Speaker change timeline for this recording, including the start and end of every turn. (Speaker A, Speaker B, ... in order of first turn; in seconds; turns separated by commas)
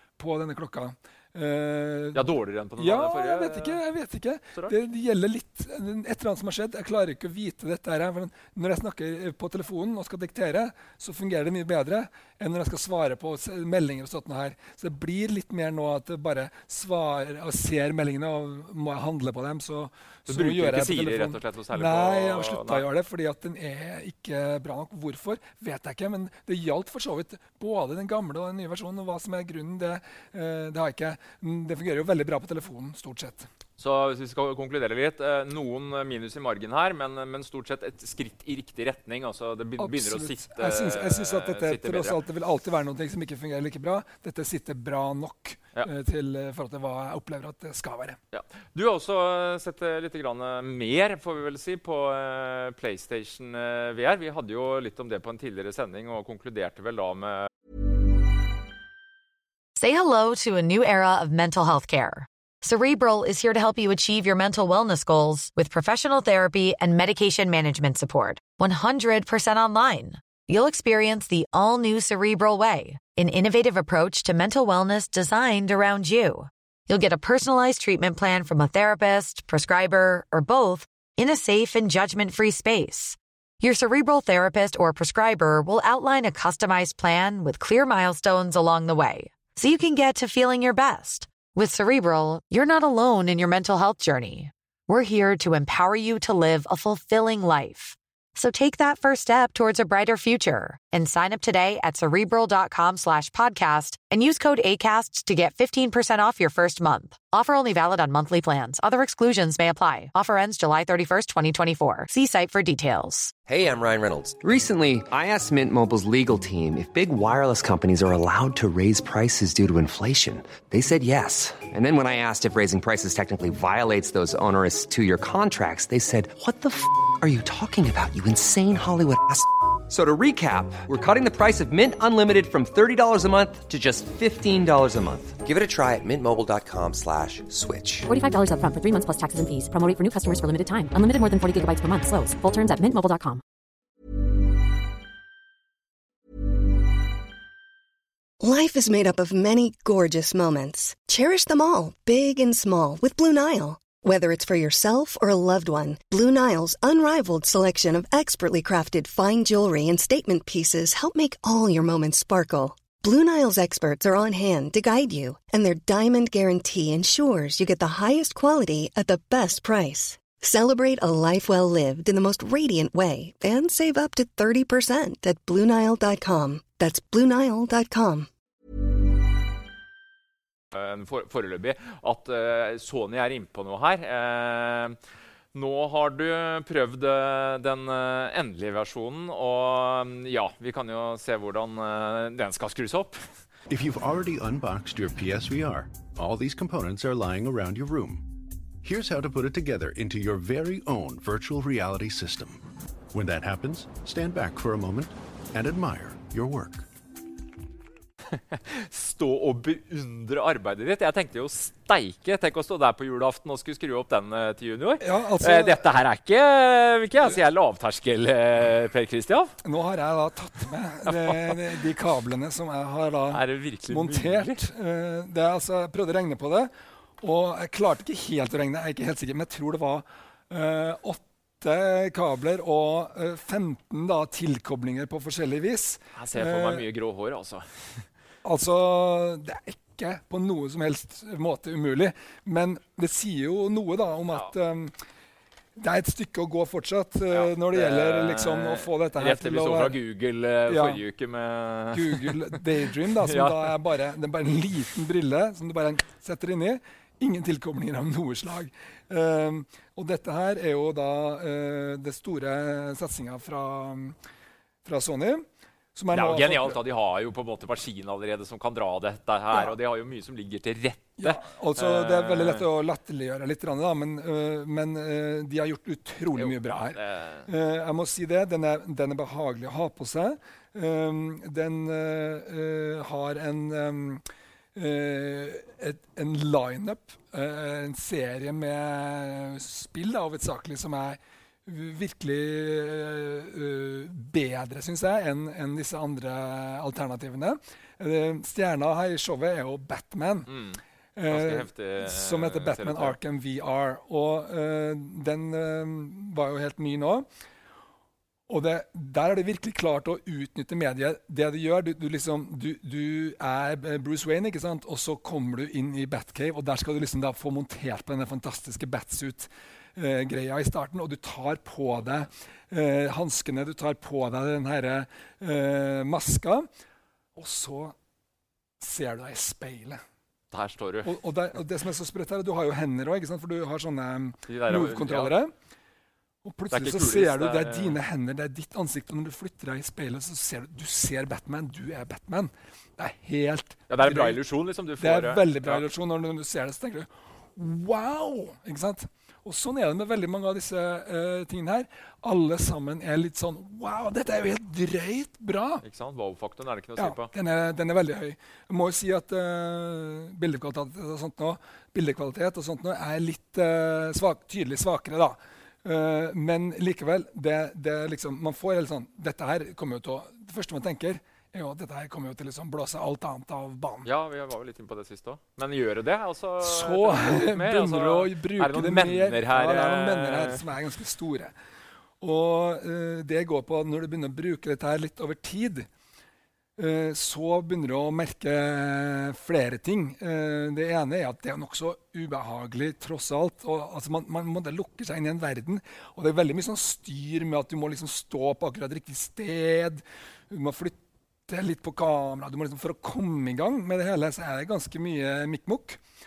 Speaker A: 0.2-33.5, Speaker B: 2.1-3.8, Speaker B: 20.3-22.8, Speaker B: 33.8-42.2, Speaker A: 39.8-48.2, Speaker B: 48.3-57.5, Speaker C: 59.8-113.3, Speaker D: 113.5-138.1, Speaker E: 138.1-143.4, Speaker F: 148.4-178.3, Speaker B: 180.7-185.0, Speaker B: 185.5-193.2, Speaker G: 193.7-198.3, Speaker G: 198.8-206.9, Speaker B: 208.3-219.5, Speaker A: 215.0-215.8, Speaker A: 219.6-236.8, Speaker B: 221.1-221.6, Speaker B: 223.3-224.6, Speaker B: 236.1-238.1, Speaker A: 238.4-244.9, Speaker A: 245.8-250.0, Speaker B: 247.3-253.7, Speaker A: 250.7-251.0, Speaker A: 251.9-264.2, Speaker A: 264.8-266.8, Speaker B: 266.1-272.6, Speaker A: 271.2-284.2, Speaker B: 276.4-277.5, Speaker A: 284.7-300.5, Speaker B: 300.5-303.2, Speaker A: 301.1-307.3, Speaker A: 308.5-326.7, Speaker A: 327.4-327.9, Speaker A: 328.8-330.0, Speaker B: 330.5-331.1, Speaker A: 331.0-335.5, Speaker B: 334.5-335.4, Speaker A: 336.4-344.4, Speaker B: 336.7-338.0, Speaker B: 343.9-345.8, Speaker A: 345.0-355.8, Speaker B: 355.8-357.3, Speaker A: 357.0-374.1, Speaker B: 374.0-380.7, Speaker A: 376.6-381.5, Speaker A: 382.2-385.9, Speaker A: 386.8-406.0